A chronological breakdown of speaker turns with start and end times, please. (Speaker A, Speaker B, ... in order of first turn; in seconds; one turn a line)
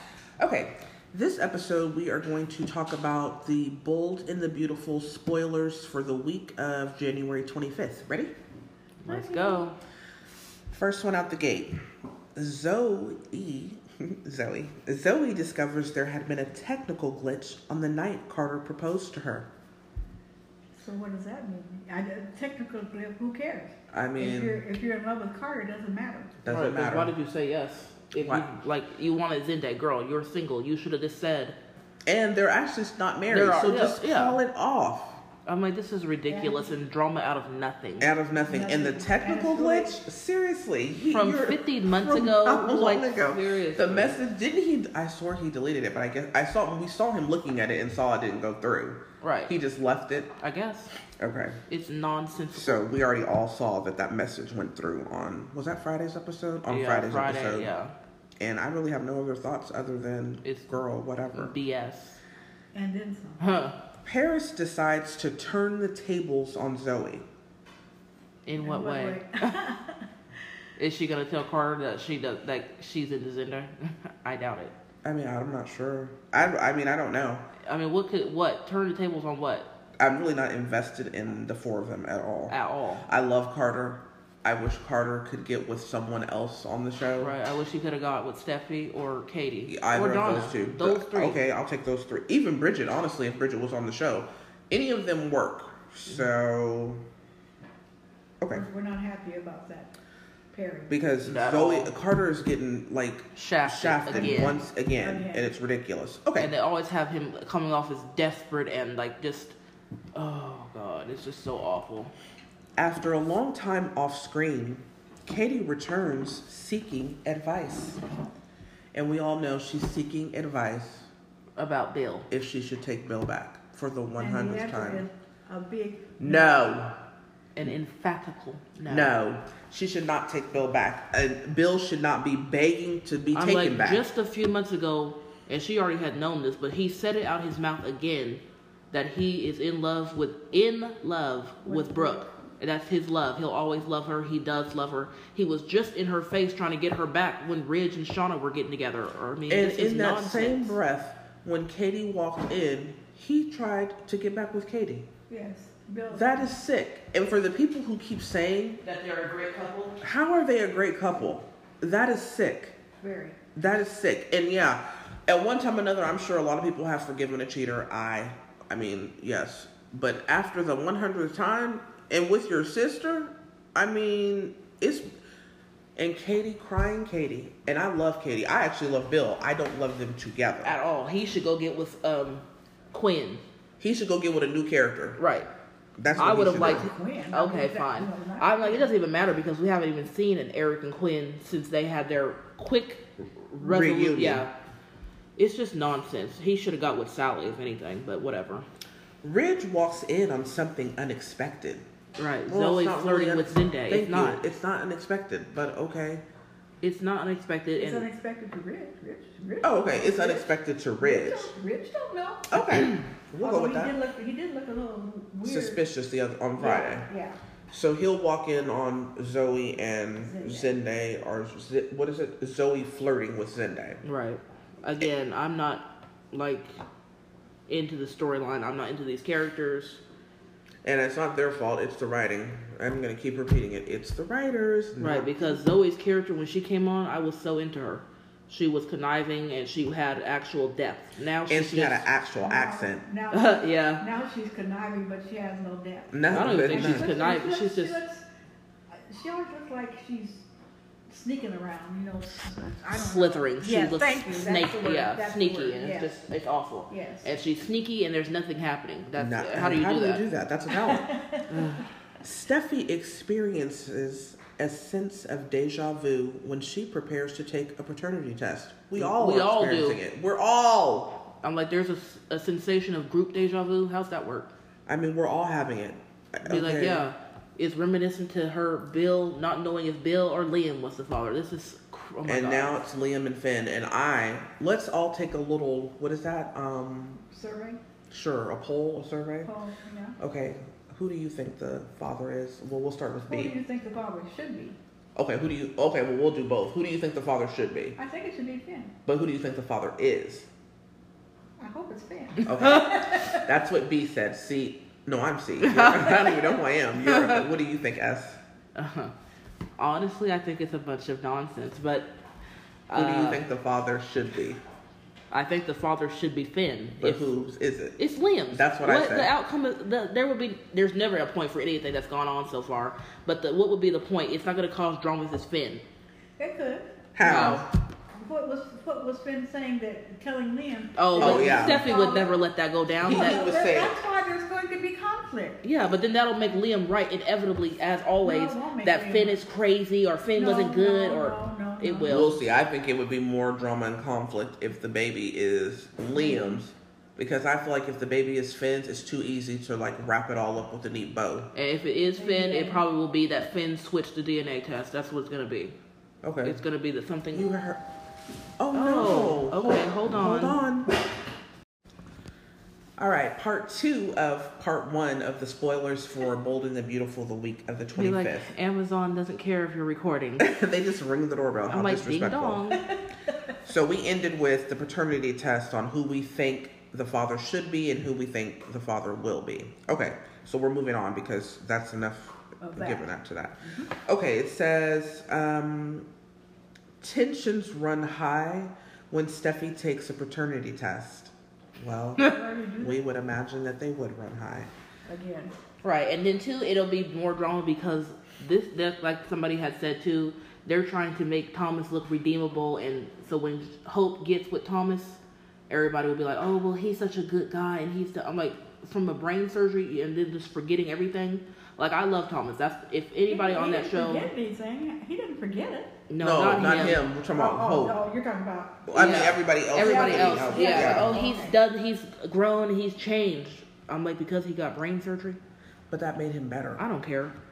Speaker A: 0.4-8.3
Speaker B: 9.0-9.8
Speaker C: 9.1-9.7
Speaker A: 10.7-11.8
Speaker A: 12.3-19.5
Speaker C: 20.8-26.3
Speaker A: 23.9-24.6
Speaker A: 26.4-27.1
Speaker B: 26.5-31.6
Speaker A: 28.2-28.4
Speaker A: 32.0-35.2
Speaker B: 33.3-34.4
Speaker B: 35.5-38.1
Speaker C: 36.3-36.8
Speaker A: 38.0-50.3
Speaker C: 38.3-40.0
Speaker B: 41.1-44.2
Speaker B: 49.2-49.5
Speaker B: 50.4-50.9
Speaker A: 51.2-51.6
Speaker B: 51.7-52.9
Speaker A: 52.5-57.7
Speaker B: 56.7-57.9
Speaker A: 58.4-61.5
Speaker B: 60.4-60.7
Speaker B: 61.3-62.2
Speaker C: 62.7-63.4
Speaker B: 63.4-63.8
Speaker A: 64.0-67.2
Speaker B: 68.5-69.5
Speaker C: 68.5-70.0
Speaker B: 70.8-74.7
Speaker A: 75.0-77.5
Speaker B: 77.7-79.7
Speaker A: 80.0-87.3
Speaker B: 82.5-83.1
Speaker B: 87.2-91.4
Speaker A: 89.7-97.0
Speaker C: 98.5-99.9
Speaker C: 100.5-100.9
Speaker A: 100.9-106.5
Speaker B: 101.2-101.9
Speaker B: 103.3-104.6
Speaker C: 104.1-105.5
Speaker B: 106.3-109.5
Speaker B: 110.1-112.1
Speaker A: 112.8-118.0
Speaker A: 118.9-121.1
Speaker B: 121.6-122.2
Speaker A: 122.3-125.0
Speaker C: 124.2-126.7
Speaker A: 126.2-127.0
Speaker B: 127.5-129.1
Speaker A: 128.8-134.1
Speaker B: 133.3-150.8
Speaker C: 141.6-142.2
Speaker A: 149.5-155.1
Speaker C: 155.3-156.5
Speaker A: 156.1-158.8
Speaker B: 158.8-160.0
Speaker A: 160.0-162.8
Speaker C: 163.0-163.4
Speaker A: 163.5-175.1
Speaker A: 175.9-180.8
Speaker B: 180.6-183.4
Speaker A: 183.8-185.2
Speaker B: 185.2-185.5
Speaker A: 186.0-186.9
Speaker B: 186.2-194.5
Speaker C: 186.3-188.9
Speaker A: 193.6-194.5
Speaker B: 195.4-198.6
Speaker A: 199.2-201.8
Speaker B: 202.2-204.4
Speaker A: 202.5-206.2
Speaker B: 206.8-208.1
Speaker C: 207.8-212.5
Speaker A: 209.6-211.5
Speaker A: 212.5-213.9
Speaker B: 212.7-213.0
Speaker C: 213.4-215.8
Speaker A: 215.4-217.1
Speaker C: 216.6-217.4
Speaker A: 217.7-224.0
Speaker C: 220.2-220.8
Speaker B: 224.0-226.7
Speaker B: 227.7-230.0
Speaker A: 230.8-235.4
Speaker B: 235.0-242.1
Speaker A: 241.5-243.0
Speaker C: 242.4-248.2
Speaker B: 243.3-244.0
Speaker A: 246.1-247.1
Speaker B: 246.3-248.0
Speaker C: 248.9-250.4
Speaker C: 251.1-256.2
Speaker B: 252.9-260.2
Speaker C: 256.9-257.3
Speaker A: 259.1-261.1
Speaker C: 260.7-261.6
Speaker B: 261.5-261.8
Speaker A: 262.2-271.3
Speaker B: 268.9-270.0
Speaker B: 271.4-274.5
Speaker A: 274.9-277.0
Speaker B: 276.4-282.8
Speaker A: 282.2-287.2
Speaker C: 287.2-287.8
Speaker A: 288.1-289.5
Speaker C: 289.4-290.2
Speaker A: 290.2-293.6
Speaker C: 293.3-294.8
Speaker A: 295.1-298.0
Speaker C: 297.9-298.9
Speaker A: 299.1-300.5
Speaker C: 301.6-303.4
Speaker A: 302.4-308.4
Speaker B: 302.5-302.8
Speaker B: 305.6-307.4
Speaker B: 308.7-309.1
Speaker B: 309.8-312.1
Speaker B: 312.9-313.5
Speaker A: 312.9-314.6
Speaker B: 315.3-317.4
Speaker A: 317.0-319.3
Speaker B: 318.0-325.8
Speaker C: 326.4-332.4
Speaker A: 327.1-327.7
Speaker B: 327.2-327.6
Speaker B: 331.0-333.4
Speaker A: 331.1-331.9
Speaker C: 333.0-335.6
Speaker A: 333.0-334.0
Speaker B: 335.6-342.4
Speaker C: 338.2-339.4
Speaker C: 340.3-342.4
Speaker A: 342.1-351.5
Speaker C: 346.1-346.6
Speaker B: 351.5-355.8
Speaker C: 351.9-352.8
Speaker A: 356.2-356.6
Speaker B: 356.4-357.5
Speaker A: 357.3-357.8
Speaker A: 358.6-360.9
Speaker B: 358.7-360.6
Speaker A: 363.0-368.5
Speaker B: 367.9-370.5
Speaker A: 370.4-372.6
Speaker B: 371.7-372.8
Speaker A: 373.6-386.1
Speaker C: 382.6-383.1
Speaker A: 387.0-394.7
Speaker C: 392.2-393.0
Speaker C: 395.1-395.5
Speaker B: 395.8-414.3
Speaker C: 413.3-415.9
Speaker B: 416.1-417.0
Speaker A: 416.2-418.0
Speaker C: 417.3-419.1
Speaker A: 418.9-421.2
Speaker B: 418.9-425.4
Speaker C: 419.8-421.6
Speaker A: 425.9-426.8
Speaker B: 426.8-427.4